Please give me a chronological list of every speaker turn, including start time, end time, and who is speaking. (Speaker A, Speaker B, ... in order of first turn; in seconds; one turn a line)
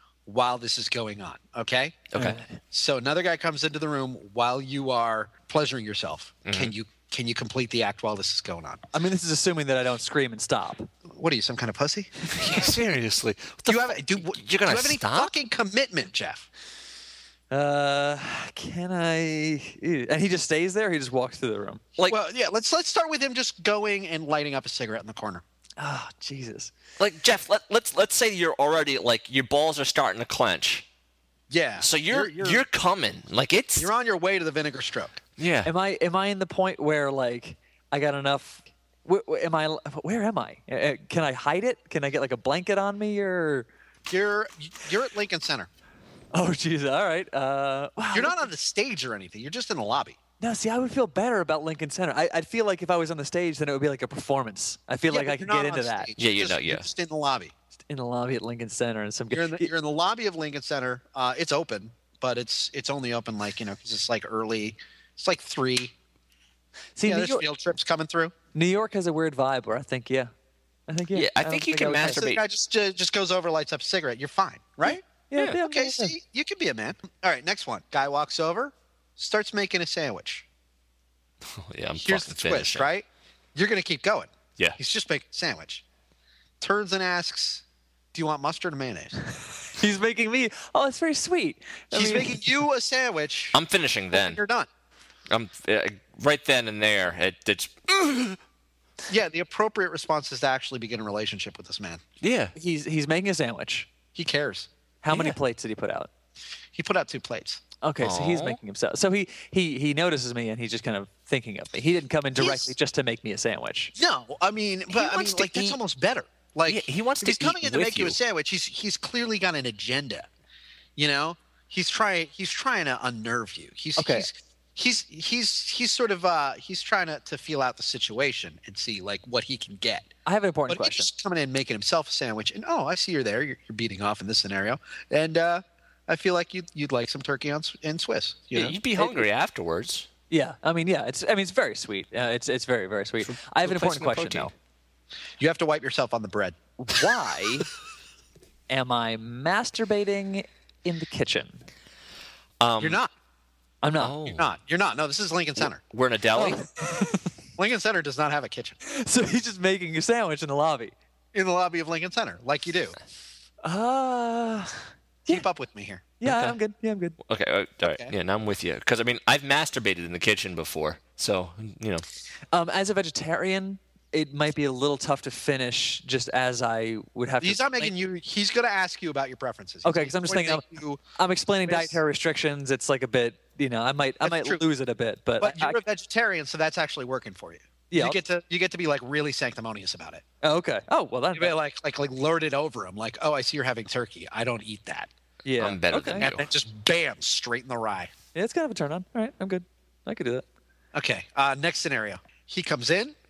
Speaker A: 0.3-2.1
Speaker B: 2.1-2.4
Speaker C: 2.2-2.6
Speaker A: 2.7-8.8
Speaker B: 6.5-6.7
Speaker C: 8.9-10.9
Speaker A: 11.1-12.1
Speaker B: 12.3-15.3
Speaker A: 13.7-16.5
Speaker C: 17.5-21.8
Speaker A: 22.1-25.4
Speaker C: 25.8-26.7
Speaker B: 27.0-30.9
Speaker A: 31.5-32.6
Speaker B: 31.8-33.9
Speaker A: 33.8-35.2
Speaker B: 35.4-35.7
Speaker C: 35.7-43.7
Speaker A: 44.1-45.7
Speaker C: 46.3-48.5
Speaker A: 48.1-50.2
Speaker C: 50.4-56.1
Speaker A: 55.1-57.5
Speaker B: 56.2-56.9
Speaker C: 57.9-59.7
Speaker A: 59.3-65.9
Speaker C: 67.0-67.5
Speaker A: 67.1-68.3
Speaker C: 68.5-70.3
Speaker C: 70.9-72.3
Speaker B: 71.1-72.4
Speaker A: 72.0-75.0
Speaker C: 74.9-76.1
Speaker A: 75.6-80.5
Speaker B: 81.5-82.9
Speaker A: 82.0-85.8
Speaker A: 86.6-89.2
Speaker C: 89.7-92.5
Speaker A: 91.9-93.6
Speaker B: 93.5-94.4
Speaker A: 94.1-94.7
Speaker B: 95.3-98.4
Speaker A: 99.1-102.0
Speaker B: 102.2-102.5
Speaker C: 102.6-103.9
Speaker A: 104.2-104.7
Speaker C: 105.0-106.1
Speaker B: 105.1-105.4
Speaker A: 106.7-107.6
Speaker C: 107.8-113.9
Speaker B: 108.0-108.6
Speaker A: 112.4-112.7
Speaker A: 114.0-120.3
Speaker B: 114.9-115.8
Speaker B: 116.7-118.2
Speaker A: 121.0-130.1
Speaker C: 124.0-124.3
Speaker C: 130.3-131.1
Speaker A: 130.7-138.8
Speaker B: 138.5-140.1
Speaker C: 139.0-139.3
Speaker C: 140.3-144.5
Speaker B: 143.2-144.5
Speaker A: 145.4-146.6
Speaker C: 146.8-147.7
Speaker C: 148.7-151.7
Speaker B: 152.6-153.0
Speaker A: 152.8-153.1
Speaker C: 153.8-154.2
Speaker B: 154.0-154.5
Speaker A: 154.3-155.8
Speaker B: 155.8-156.6
Speaker C: 156.4-157.3
Speaker A: 157.6-158.8
Speaker C: 158.8-160.9
Speaker A: 161.3-163.0
Speaker C: 163.6-165.4
Speaker A: 165.3-166.0
Speaker C: 166.2-167.2
Speaker B: 166.2-166.6
Speaker B: 167.2-172.1
Speaker A: 167.8-168.1
Speaker C: 172.5-177.9
Speaker A: 177.4-181.0
Speaker C: 179.8-185.8
Speaker A: 181.6-182.0
Speaker A: 184.2-184.6
Speaker A: 185.4-190.2
Speaker C: 187.9-188.2
Speaker C: 190.4-191.5
Speaker A: 191.3-195.1
Speaker C: 195.4-196.3
Speaker B: 195.6-196.5
Speaker A: 196.2-198.1
Speaker C: 198.3-200.4
Speaker A: 200.9-203.2